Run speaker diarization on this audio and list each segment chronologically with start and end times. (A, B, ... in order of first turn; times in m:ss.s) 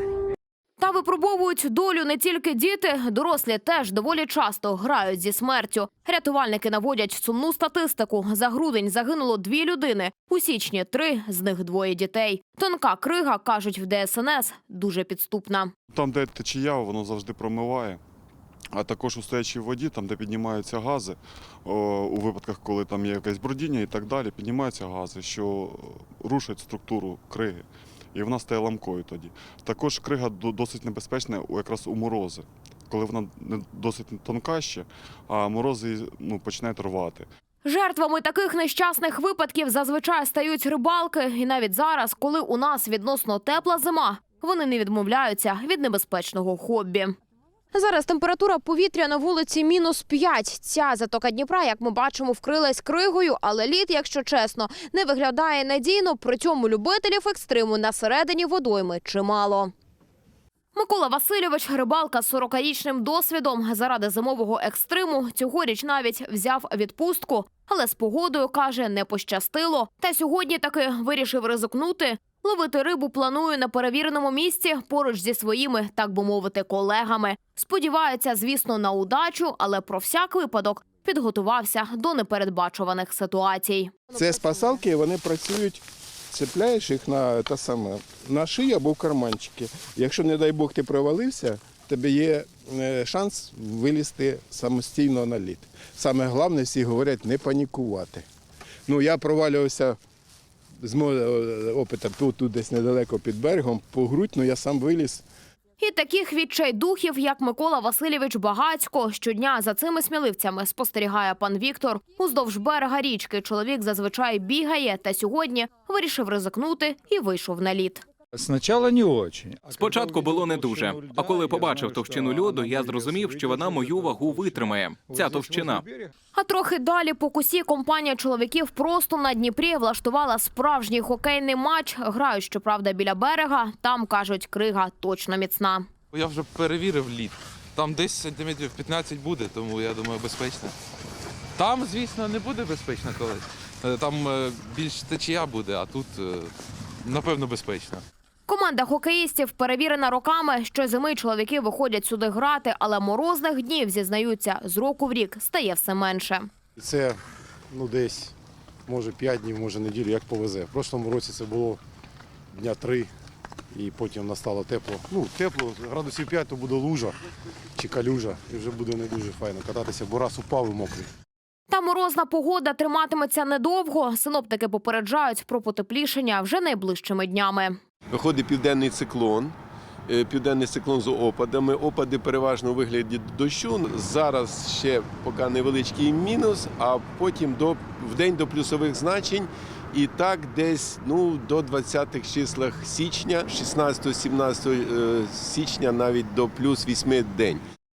0:00.8-0:15.7 A
0:15.9-0:18.0 B
0:18.7-0:37.3 B
0:37.6-0:47.1 A
0:47.7-0:59.7 A
1:00.7-1:24.1 A
1:24.1-1:38.2 C
1:38.9-1:40.0 C
1:40.8-1:45.2 C
1:45.8-1:58.0 A
1:58.3-2:00.2 D
1:59.6-2:05.8 E
2:00.7-2:01.0 D
2:03.8-2:04.2 D
2:05.1-2:06.1 D
2:06.3-2:15.9 A
2:16.1-2:20.7 F
2:21.6-2:28.0 F
2:28.5-2:36.5 A
2:36.8-2:37.2 G
2:37.7-2:38.3 G
2:38.8-2:41.8 G
2:42.5-2:43.1 G
2:43.7-2:47.2 G
2:47.8-2:51.1 G
2:51.7-2:57.8 A
2:58.1-2:59.5 H
3:00.1-3:17.6 H